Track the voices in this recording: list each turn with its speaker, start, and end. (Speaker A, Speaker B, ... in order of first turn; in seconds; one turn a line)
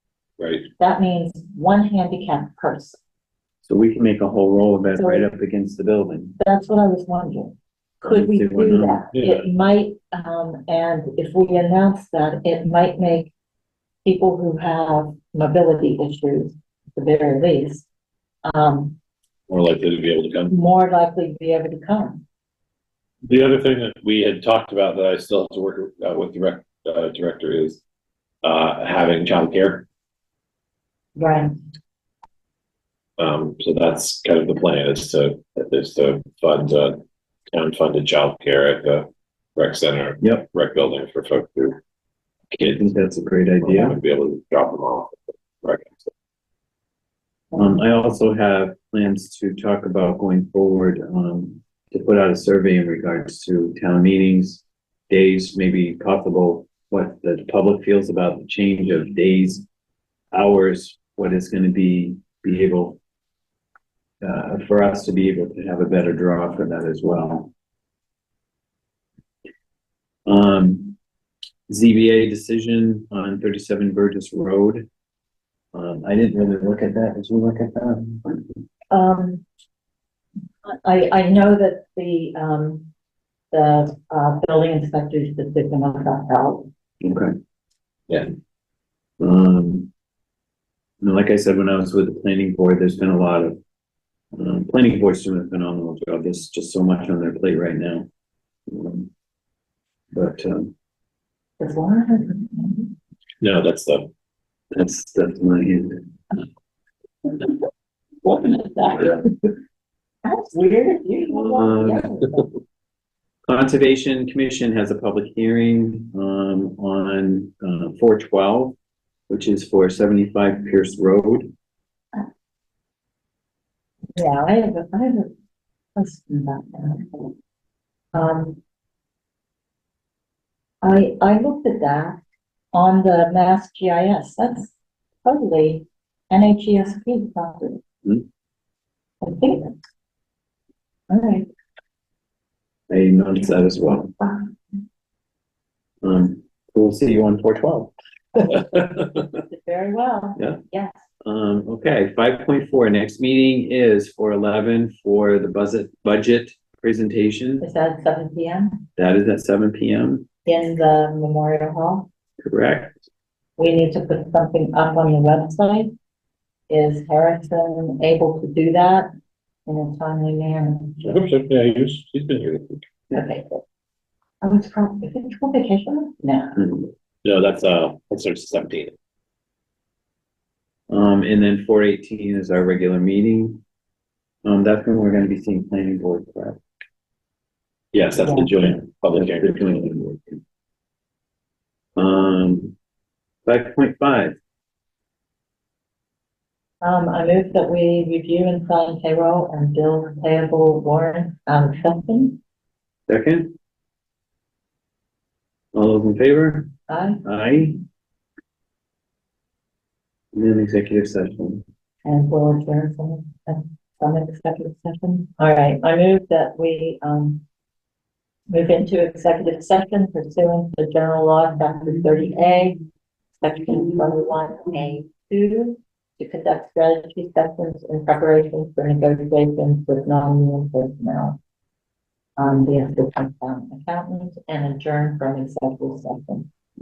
Speaker A: 0.4-0.7
Speaker B: 0.8-3.0
Speaker C: 3.6-6.4
Speaker B: 4.9-5.3
Speaker B: 6.4-13.3
Speaker C: 8.0-9.0
Speaker A: 9.1-9.4
Speaker B: 14.0-17.9
Speaker B: 18.4-19.0
Speaker A: 19.5-20.5
Speaker B: 20.5-22.2
Speaker A: 23.2-27.8
Speaker A: 28.4-29.9
Speaker B: 31.1-31.5
Speaker A: 33.2-41.8
Speaker C: 40.2-40.5
Speaker C: 42.5-44.0
Speaker A: 43.6-46.1
Speaker C: 47.5-59.6
Speaker C: 60.3-63.0
Speaker C: 64.2-67.5
Speaker C: 70.2-71.0
Speaker C: 71.7-74.9
Speaker C: 75.7-78.6
Speaker B: 78.9-79.4
Speaker B: 80.6-82.9
Speaker B: 83.5-86.7
Speaker C: 87.0-87.3
Speaker C: 89.2-89.9
Speaker C: 91.0-93.6
Speaker C: 94.3-98.1
Speaker C: 98.7-99.1
Speaker C: 100.1-100.7
Speaker B: 101.6-102.9
Speaker A: 103.4-104.1
Speaker C: 104.7-106.1
Speaker B: 108.2-109.4
Speaker B: 110.2-112.5
Speaker C: 111.3-112.1
Speaker C: 113.5-118.8
Speaker C: 119.3-121.5
Speaker B: 124.2-125.3
Speaker B: 126.0-127.3
Speaker B: 128.1-128.6
Speaker B: 130.8-132.2
Speaker B: 132.7-137.8
Speaker B: 139.2-139.7
Speaker B: 141.1-141.5
Speaker C: 142.9-144.5
Speaker C: 146.0-147.9
Speaker B: 149.3-151.0
Speaker C: 151.2-157.7
Speaker B: 157.6-158.8
Speaker C: 159.0-160.2
Speaker B: 160.4-162.1
Speaker C: 162.4-163.0
Speaker B: 163.6-165.9
Speaker B: 166.7-169.1
Speaker B: 169.7-171.1
Speaker A: 171.0-172.8
Speaker B: 173.1-173.6
Speaker B: 174.4-176.6
Speaker C: 176.6-176.9
Speaker A: 177.2-178.9
Speaker C: 180.9-183.6
Speaker C: 184.4-186.6
Speaker A: 187.9-190.1
Speaker B: 188.2-188.5
Speaker C: 188.5-190.4
Speaker C: 191.9-192.7
Speaker C: 193.4-194.4
Speaker B: 196.8-202.4
Speaker C: 203.1-203.5
Speaker C: 205.7-206.7
Speaker B: 206.9-207.2
Speaker C: 207.2-207.8
Speaker C: 210.3-211.6
Speaker B: 212.0-217.4
Speaker B: 218.5-222.8
Speaker B: 223.4-231.4
Speaker B: 232.4-236.5